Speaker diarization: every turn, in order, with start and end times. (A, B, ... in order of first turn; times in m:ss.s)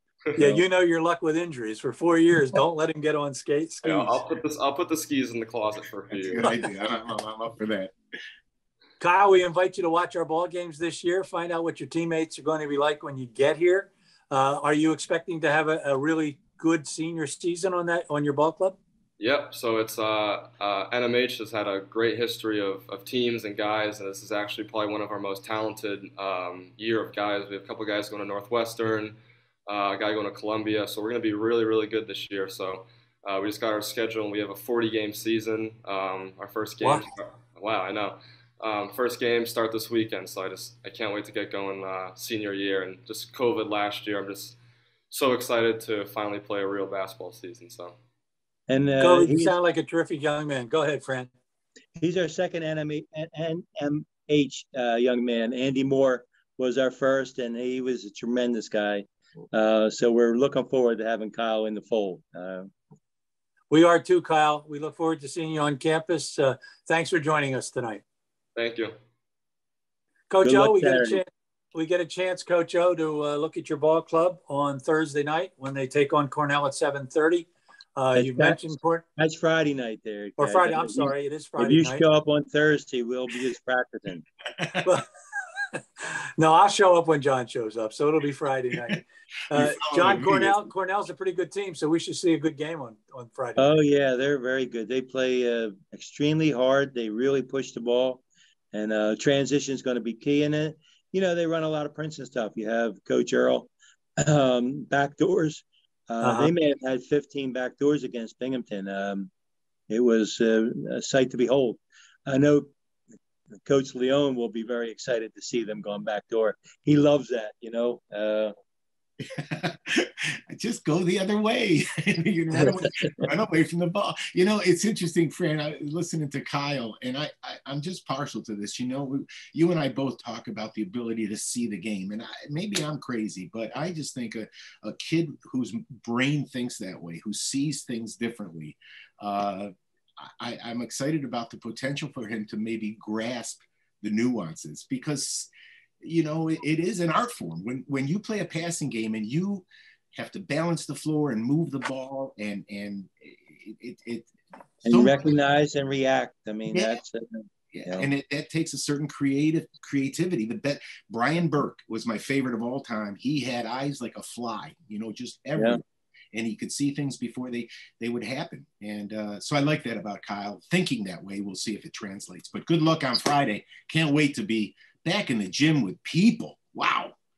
0:00.4-0:04.2 A
0:00.4-0:00.6 B
0:03.8-0:06.5 C
0:06.1-0:07.9 D
0:09.0-0:18.8 A
0:19.2-0:44.6 C
0:45.1-0:48.0 C
0:48.7-0:49.6 B
0:49.0-0:51.3 A
0:52.0-1:02.7 B
1:03.7-1:08.0 A
1:08.5-1:08.9 C
1:10.3-1:19.0 A
1:10.4-1:11.2 B
1:18.1-1:18.6 B
1:19.2-1:24.2 B
1:20.4-1:22.0 A
1:24.6-1:24.9 D
1:25.7-1:33.8 A
1:29.5-1:30.7 D
1:33.6-1:49.3 B
1:46.2-1:46.5 A
1:49.9-1:52.7 B
1:53.6-1:58.5 B
1:59.4-2:25.5 D
2:02.5-2:03.3 B
2:26.0-2:34.3 D
2:34.8-2:35.4 D
2:34.8-2:38.1 B
2:36.7-2:37.0 D
2:37.7-2:57.1 D
2:45.6-2:45.8 B